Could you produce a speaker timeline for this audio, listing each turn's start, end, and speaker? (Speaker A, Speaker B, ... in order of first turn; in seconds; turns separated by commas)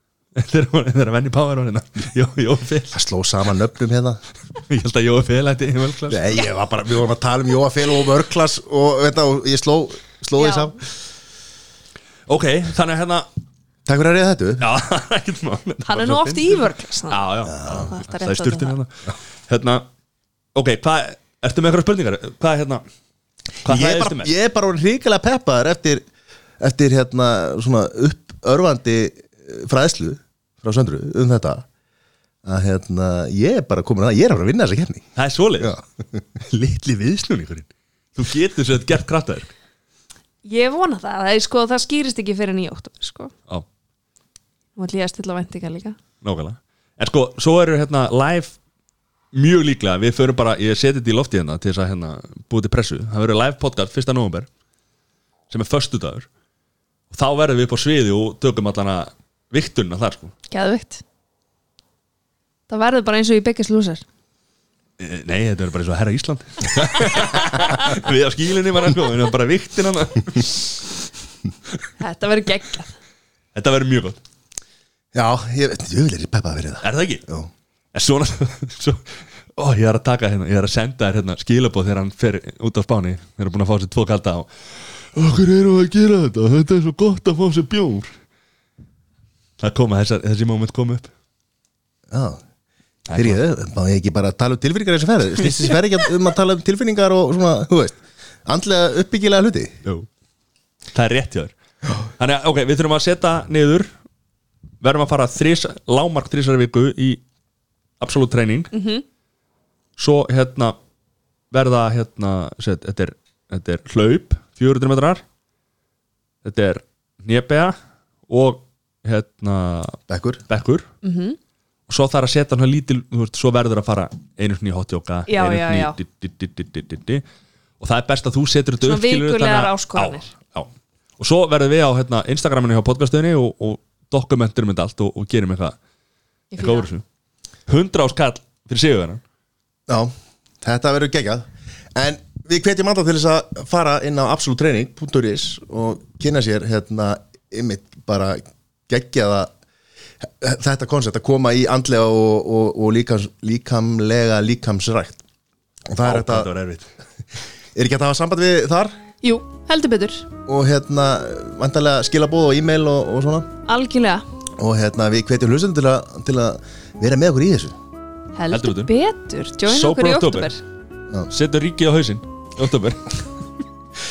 Speaker A: 0.3-2.9, Speaker B: 2.9-4.2, Speaker A: 4.7-6.2, Speaker B: 6.1-10.8, Speaker C: 10.4-10.7, Speaker A: 12.3-13.2, Speaker B: 13.8-14.7, Speaker A: 14.6-19.9, Speaker C: 15.8-18.8, Speaker B: 17.4-17.9, Speaker A: 20.5-22.8, Speaker A: 23.6-24.3, Speaker B: 23.6-26.0, Speaker B: 26.6-31.6, Speaker B: 32.4-35.1, Speaker A: 35.1-35.8, Speaker B: 35.6-36.2, Speaker A: 36.4-39.5, Speaker C: 40.4-43.3, Speaker C: 44.8-46.0, Speaker A: 46.2-48.5, Speaker A: 49.3-54.5, Speaker A: 55.5-56.3, Speaker A: 57.1-60.3, Speaker C: 60.5-61.0, Speaker C: 62.7-64.0, Speaker A: 65.0-70.9, Speaker C: 72.0-72.9, Speaker A: 73.5-74.2, Speaker B: 75.1-77.5, Speaker A: 76.8-77.2, Speaker A: 77.9-88.1, Speaker A: 89.6-91.1, Speaker B: 92.1-92.4, Speaker A: 93.1-93.4, Speaker B: 93.1-99.8, Speaker A: 100.9-101.5, Speaker A: 102.2-103.9, Speaker A: 104.8-107.2, Speaker A: 108.0-108.7, Speaker C: 108.7-109.0, Speaker A: 110.0-110.8, Speaker A: 111.5-115.2, Speaker A: 116.4-117.7, Speaker A: 118.3-120.9, Speaker B: 120.1-120.4, Speaker C: 121.0-121.4, Speaker A: 121.9-127.2, Speaker C: 125.3-126.0, Speaker A: 127.8-135.8, Speaker C: 128.8-130.3, Speaker C: 136.5-136.9, Speaker A: 136.6-137.0, Speaker A: 137.7-139.2, Speaker B: 139.9-149.5, Speaker B: 150.2-155.2, Speaker B: 155.9-156.5, Speaker A: 156.0-156.9, Speaker B: 157.7-158.9, Speaker C: 159.2-160.3, Speaker B: 160.4-163.5, Speaker C: 163.7-164.2, Speaker B: 164.6-167.7, Speaker C: 168.3-170.6, Speaker A: 168.5-168.9, Speaker A: 169.7-170.5, Speaker A: 171.3-173.0